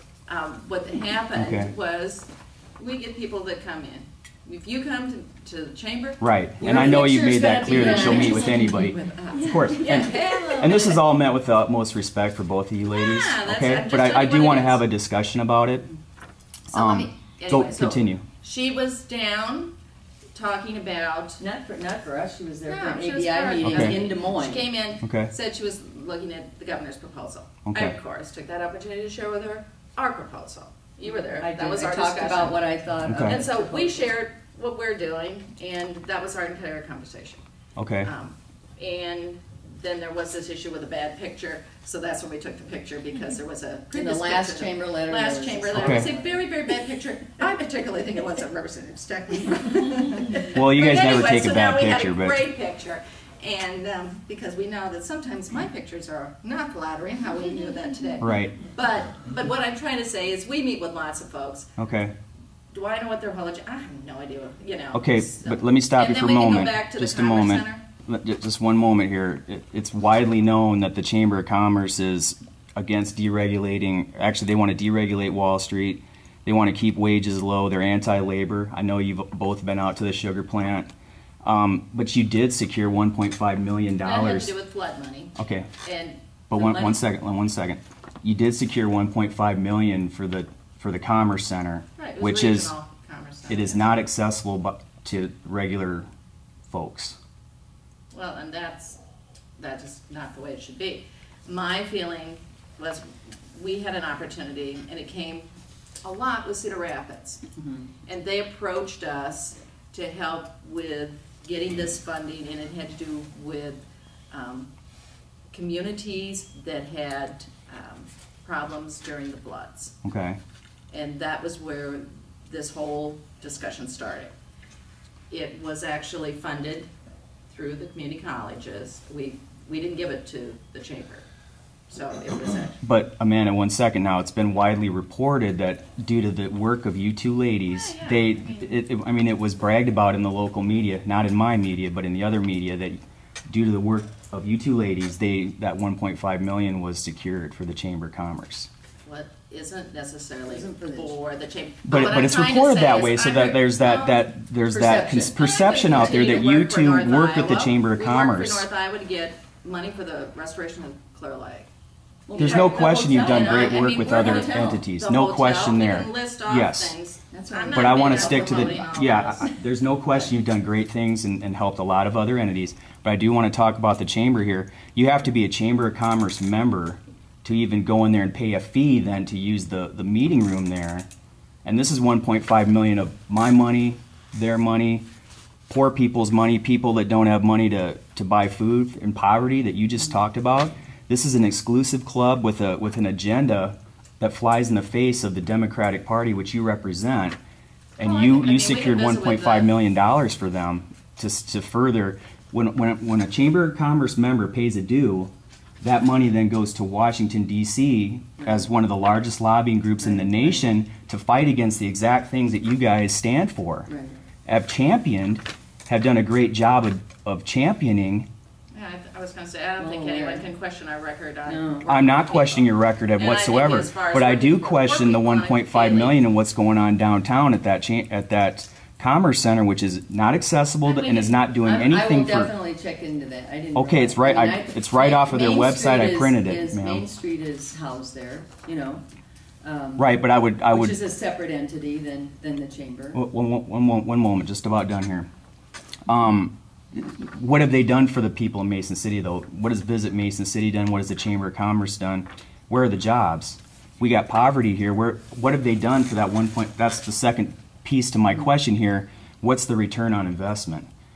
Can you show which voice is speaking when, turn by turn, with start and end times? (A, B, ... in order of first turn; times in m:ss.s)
0:00.3-0:11.0 A
0:01.3-0:01.7 B
0:06.2-0:15.9 B
0:06.6-0:08.8 C
0:12.9-0:14.8 A
0:16.7-0:19.7 A
0:16.7-0:18.2 B
0:20.3-0:21.4 A
0:21.4-0:24.7 C
0:22.7-0:37.4 A
0:23.6-0:24.0 B
0:25.0-0:25.3 B
0:27.6-0:28.0 B
0:31.3-0:34.0 C
0:33.0-0:33.4 B
0:37.8-0:38.1 B
0:38.0-1:01.7 A
0:43.9-0:46.4 C
0:45.7-0:46.1 B
0:50.5-0:52.4 B
0:58.2-0:58.5 B
1:01.8-1:02.1 B
1:02.7-1:07.8 A
1:04.9-1:20.9 B
1:21.4-1:24.5 B
1:24.0-1:27.0 A
1:25.4-1:25.7 B
1:26.5-1:32.7 B
1:32.0-1:34.0 A
1:33.5-1:36.1 B
1:36.7-1:37.2 B
1:38.1-1:39.0 A
1:39.6-1:45.5 A
1:46.0-1:47.4 A
1:47.6-1:47.9 C
1:48.1-1:54.7 A
1:55.5-2:00.0 A
2:00.0-2:00.4 B
2:00.9-2:04.3 A
2:05.3-2:06.9 A
2:07.5-2:11.2 A
2:11.9-2:12.8 A
2:12.8-2:28.7 B
2:17.7-2:18.7 A
2:29.0-2:34.2 A
2:30.5-2:31.1 C
2:31.8-2:38.7 B
2:34.7-2:35.4 C
2:35.3-2:41.7 A
2:35.9-2:36.4 C
2:42.3-2:44.8 C
2:42.3-2:49.5 A
2:42.4-2:47.0 B
2:47.3-2:49.0 C
2:47.7-3:01.1 B
3:01.6-3:05.0 B
3:05.7-3:17.4 B
3:18.0-3:33.9 B
3:18.0-3:19.8 A
3:28.4-3:28.7 C
3:30.0-3:30.7 C
3:33.9-3:34.1 C
3:34.4-3:38.3 B
3:38.7-3:46.2 A
3:39.8-3:40.5 C
3:41.5-3:41.9 C
3:41.8-3:52.5 B
3:50.8-3:51.4 A
3:51.6-3:59.0 C
3:53.8-3:57.0 B
3:59.6-4:00.2 C
4:00.0-4:01.0 B
4:00.7-4:03.2 C
4:03.1-4:05.3 B
4:06.1-4:20.9 B